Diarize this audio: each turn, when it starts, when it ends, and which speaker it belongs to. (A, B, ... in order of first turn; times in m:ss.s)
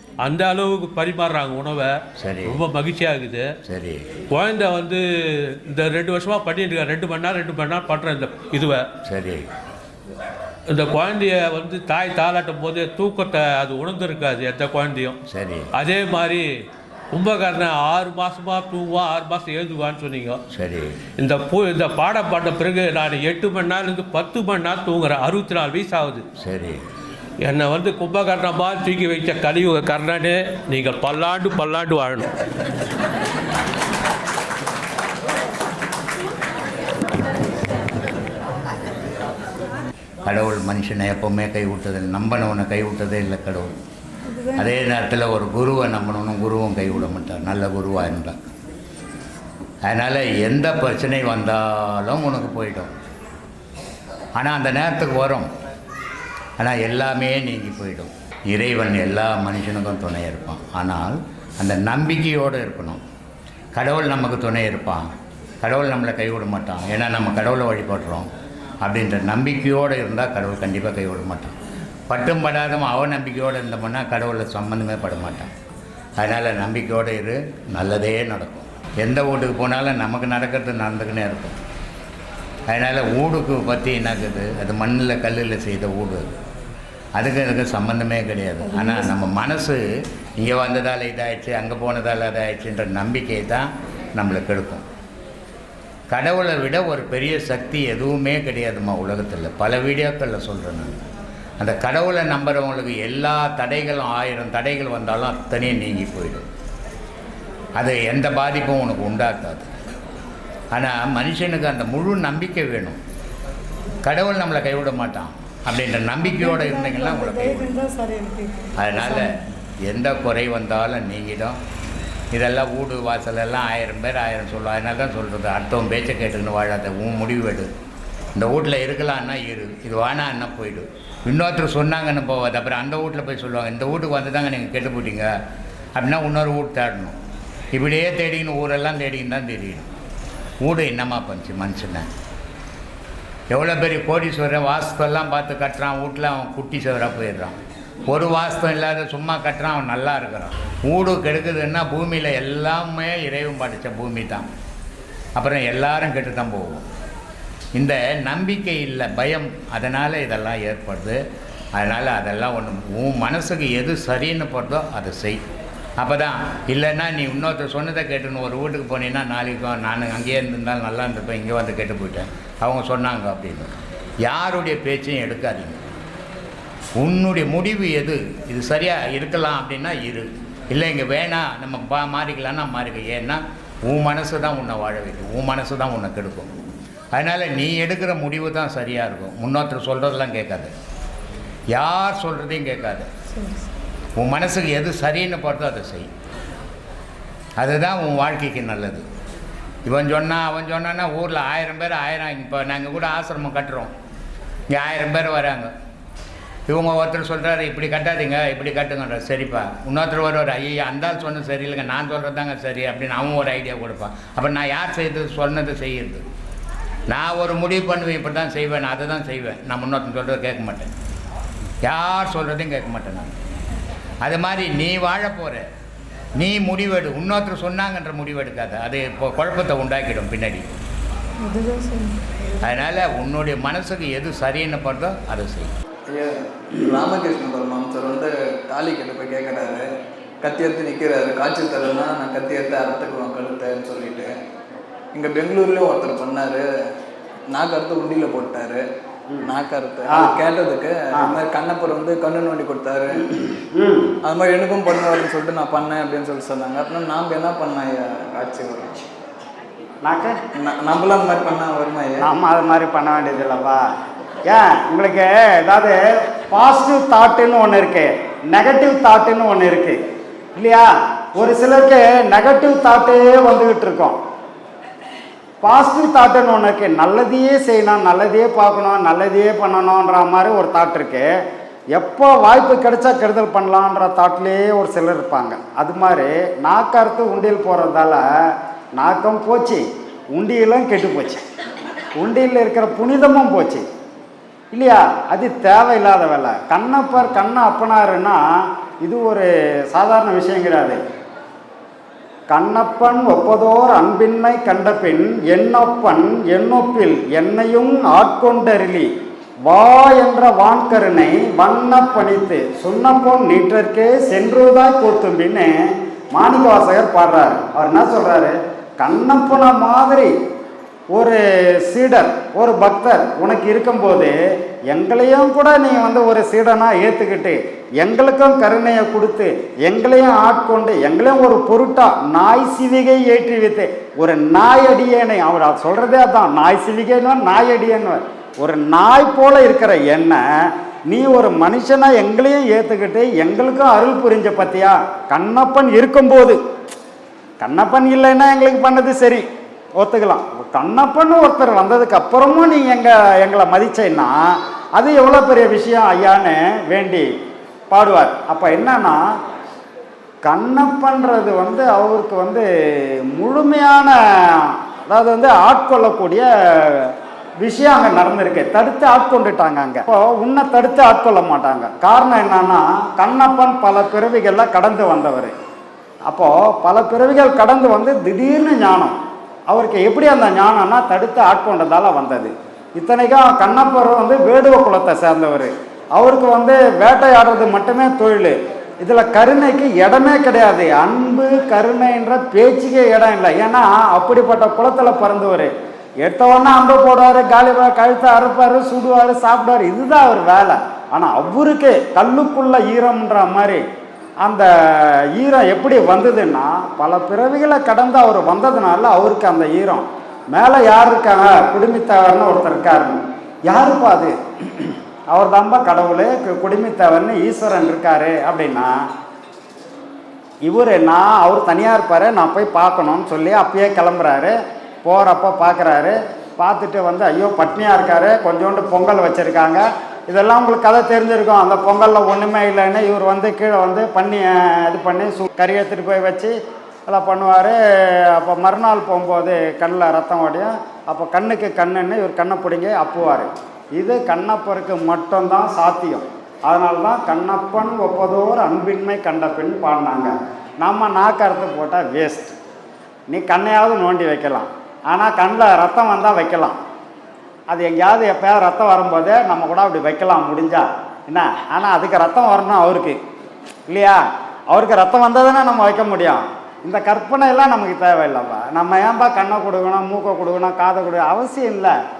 0:00.2-0:03.5 A
0:02.2-0:02.6 B
0:03.6-0:04.1 B
0:04.3-0:08.8 A
0:09.0-0:09.5 B
0:10.7-0:15.2 A
0:15.3-0:15.7 B
0:15.7-0:16.4 A
0:17.1-0:20.4 A
0:20.5-0:21.0 B
0:21.2-0:26.2 A
0:26.4-0:26.8 B
0:27.4-0:32.3 A
0:40.2-0:43.7 B
0:44.5-0:48.4 B
0:49.8-0:52.9 B
0:54.4-0:55.5 B
0:56.6-1:03.0 B
1:03.7-1:05.1 B
1:05.6-1:08.3 B
1:08.8-1:11.5 B
1:12.1-1:15.5 B
1:16.2-1:21.6 B
1:22.7-1:26.4 B
1:27.2-1:29.8 B
1:28.7-1:29.1 C
1:30.4-1:34.8 B
1:36.1-1:41.0 B
1:41.6-1:46.4 B
1:47.8-1:49.7 B
1:50.7-1:53.0 B
1:54.0-1:57.8 B
1:56.2-1:59.3 C
1:58.8-1:59.3 B
1:59.8-2:01.6 B
2:02.3-2:07.7 B
2:08.4-2:15.3 B
2:15.9-2:17.2 B
2:17.7-2:19.9 B
2:20.6-2:22.1 B
2:23.5-2:27.6 B
2:28.1-2:34.4 B
2:35.4-2:36.8 B
2:37.7-2:41.2 B
2:41.8-2:45.4 B
2:46.0-2:55.8 B
2:57.0-3:06.5 B
3:07.1-3:10.7 B
3:11.7-3:13.1 B
3:13.4-3:13.6 C
3:14.2-3:16.1 B
3:17.6-3:19.0 B
3:19.8-3:23.9 B
3:24.7-3:25.7 B
3:26.7-3:36.2 B
3:37.1-3:40.9 B
3:41.8-3:43.3 B
3:44.2-3:45.6 B
3:46.4-3:50.6 B
3:51.4-3:52.1 C
3:52.6-3:55.7 B
3:56.1-3:59.9 D
4:00.4-4:04.3 D
4:05.1-4:06.6 D
4:07.5-4:08.8 D
4:09.4-4:13.4 D
4:10.1-4:10.4 E
4:13.7-4:14.1 E
4:14.2-4:19.0 D
4:20.0-4:20.3 E
4:20.6-4:22.2 D
4:22.2-4:23.8 E
4:24.5-4:30.0 E
4:30.6-4:34.2 E
4:35.6-4:41.3 E
4:41.9-4:48.2 E
4:49.0-4:51.4 E
4:52.2-4:53.8 E
4:54.7-4:58.4 E
4:59.0-5:01.0 E
5:02.5-5:09.1 E
5:09.7-5:20.3 E
5:21.1-5:24.3 E
5:24.9-5:40.4 E
5:41.1-5:46.6 E
5:47.6-5:49.4 E
5:50.0-5:57.3 E
5:57.9-5:59.2 E
6:00.4-6:15.5 E
6:16.3-6:19.2 E
6:19.7-6:35.7 E
6:36.2-6:43.8 E
6:44.4-6:58.9 E
7:00.6-7:16.5 E
7:17.1-7:32.5 E
7:33.3-7:36.8 E
7:37.7-7:43.2 E
7:43.9-7:51.9 E